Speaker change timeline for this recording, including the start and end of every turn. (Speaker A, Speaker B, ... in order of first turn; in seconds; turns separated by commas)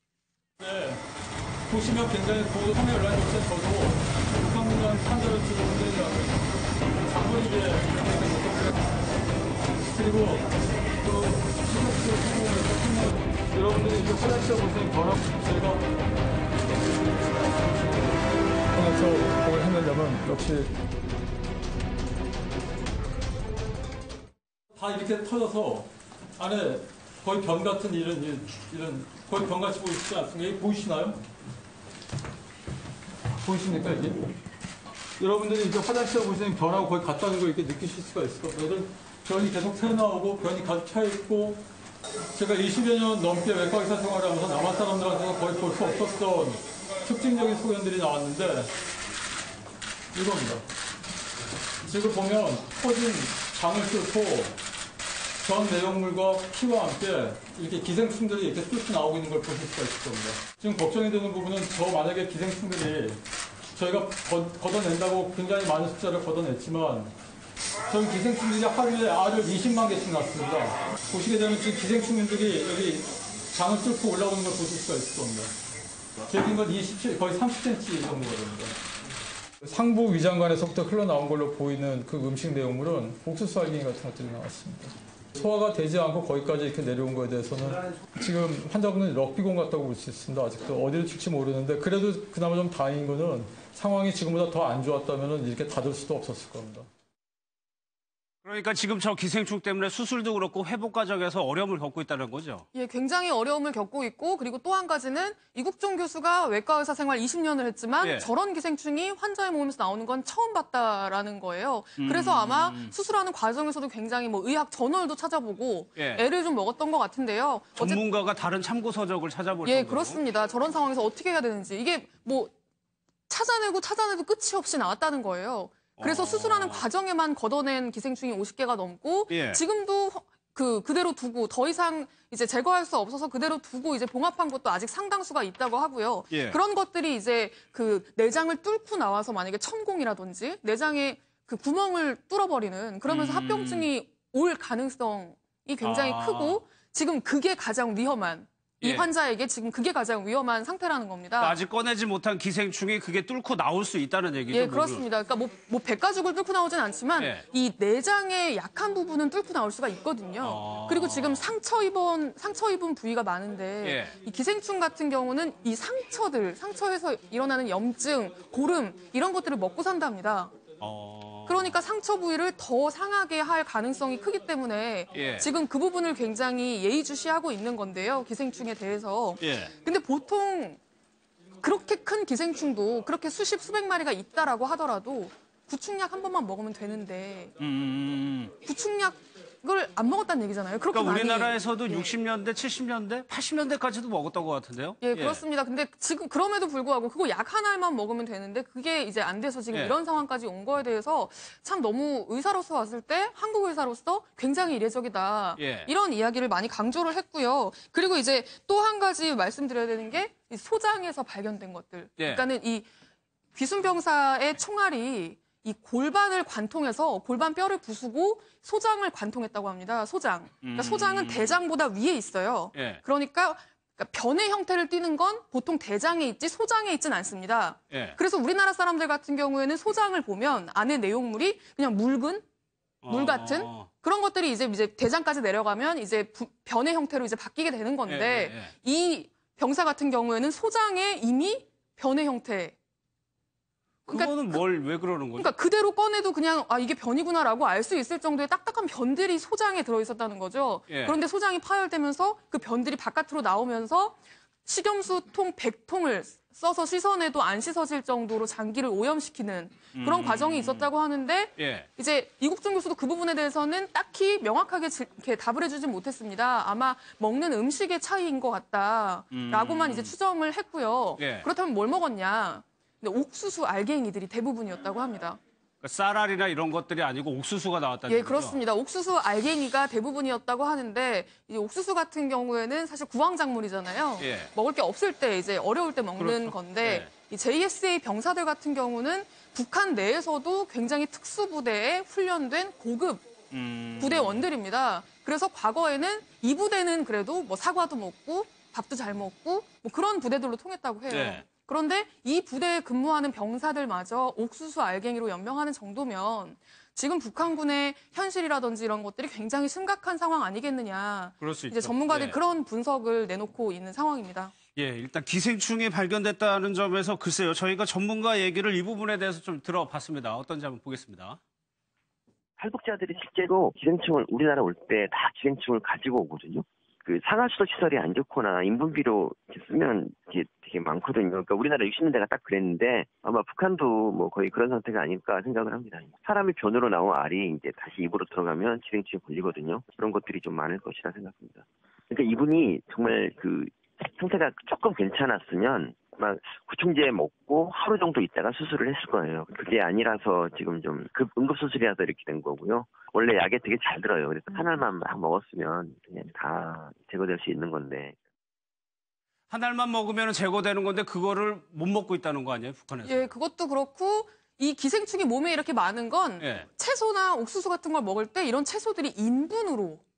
Speaker A: 0.6-1.0, Speaker A: 1.7-8.9, Speaker A: 9.9-15.9, Speaker A: 16.7-20.8, Speaker A: 24.7-31.2, Speaker A: 33.4-34.2, Speaker A: 35.2-41.6, Speaker A: 42.3-48.7, Speaker A: 50.1-50.6, Speaker A: 51.9-54.6, Speaker A: 55.4-63.2, Speaker A: 63.7-67.1, Speaker A: 67.9-75.5, Speaker A: 76.2-78.7, Speaker A: 79.6-96.9, Speaker B: 98.4-102.7, Speaker C: 102.7-118.0, Speaker B: 108.0-108.3, Speaker B: 112.0-112.9, Speaker B: 116.0-116.2, Speaker B: 117.8-120.2, Speaker C: 119.7-122.5, Speaker C: 123.3-151.6, Speaker B: 126.0-126.8, Speaker B: 129.3-129.6, Speaker B: 136.3-136.6, Speaker B: 143.1-143.9, Speaker B: 145.8-146.6, Speaker B: 148.8-149.1, Speaker B: 151.4-155.1, Speaker C: 154.5-170.6, Speaker B: 157.2-157.4, Speaker B: 160.4-161.5, Speaker B: 163.8-164.2, Speaker B: 170.8-171.7, Speaker C: 171.5-180.8, Speaker B: 175.1-175.5, Speaker B: 179.4-179.7, Speaker C: 181.6-187.5, Speaker B: 187.6-188.5, Speaker C: 188.6-192.1, Speaker B: 190.9-195.4, Speaker C: 195.0-212.9, Speaker B: 205.6-205.9, Speaker C: 213.6-232.4, Speaker B: 220.6-221.5, Speaker B: 222.7-223.0, Speaker B: 227.9-228.2, Speaker B: 233.0-233.9, Speaker C: 233.1-242.8, Speaker B: 238.1-238.7, Speaker C: 244.1-244.6, Speaker B: 244.1-245.5, Speaker C: 245.4-275.4, Speaker B: 250.9-251.2, Speaker B: 259.9-260.9, Speaker B: 261.6-261.9, Speaker B: 269.3-270.1, Speaker B: 271.2-271.5, Speaker B: 275.8-278.6, Speaker C: 278.1-293.3, Speaker B: 284.2-284.5, Speaker B: 286.2-287.1, Speaker B: 293.5-294.4, Speaker C: 294.0-314.5, Speaker B: 301.1-301.4, Speaker B: 311.4-312.4, Speaker B: 314.8-321.4, Speaker D: 322.6-358.2, Speaker B: 359.5-363.3, Speaker C: 363.1-370.0, Speaker B: 366.4-366.7